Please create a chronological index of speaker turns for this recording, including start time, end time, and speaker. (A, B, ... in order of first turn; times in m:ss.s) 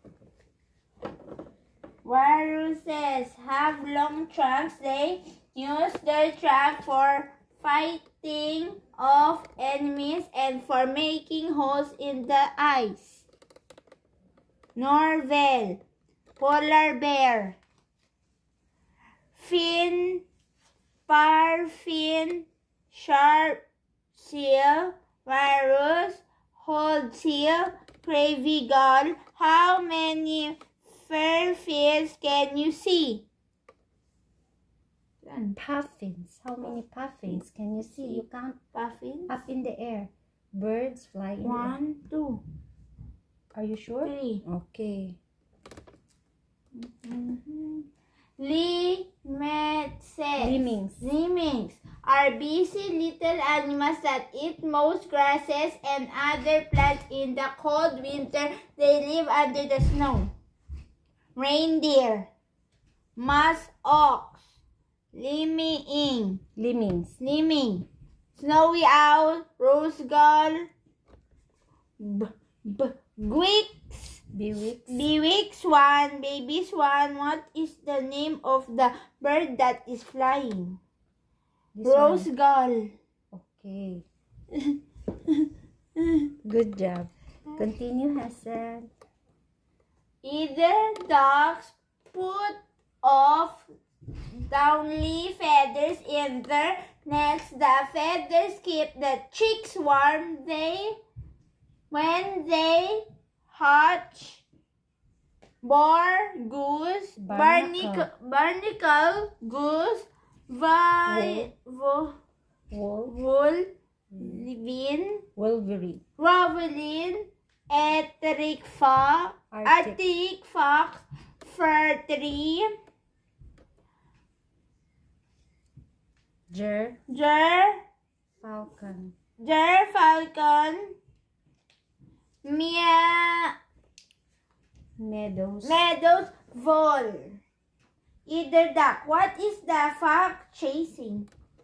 0:02.0-0:13.2 A
0:14.8-0:15.8 A
0:16.4-0:17.6 A
0:19.4-0:20.2 A
0:21.1-0:23.6 A
0:24.2-0:33.2 A
0:35.2-0:35.6 A
0:35.6-0:38.6 B
0:37.8-0:38.2 A
0:38.7-0:39.4 A
0:39.3-0:41.8 B
0:41.4-0:42.4 A
0:43.5-0:45.2 B
0:44.0-0:44.4 A
0:46.8-0:47.9 A
0:48.4-1:00.3 A
0:50.4-0:51.0 B
1:01.4-1:02.3 A
1:03.2-1:04.4 A
1:05.1-1:06.4 A
1:06.6-1:07.2 B
1:07.2-1:10.7 A
1:12.0-1:14.2 A
1:14.3-1:15.0 B
1:14.9-1:20.8 A
1:21.7-1:22.3 B
1:21.8-1:22.9 A
1:23.3-1:24.1 B
1:26.0-1:26.2 A
1:26.4-1:28.9 B
1:30.2-1:33.7 A
1:34.4-1:41.0 A
1:41.9-1:44.4 A
1:45.6-1:52.2 A
1:47.2-1:48.1 B
1:51.1-1:51.5 B
1:52.7-1:53.2 B
1:53.1-1:55.2 A
1:54.1-1:54.5 B
1:55.4-1:56.0 B
1:56.2-2:02.7 A
1:59.5-2:00.0 B
2:06.5-2:07.0 B
2:07.1-2:07.8 A
2:08.4-2:09.2 B
2:09.4-2:10.9 A
2:12.4-2:13.5 A
2:15.0-2:15.8 B
2:15.6-2:17.4 A
2:18.3-2:21.3 A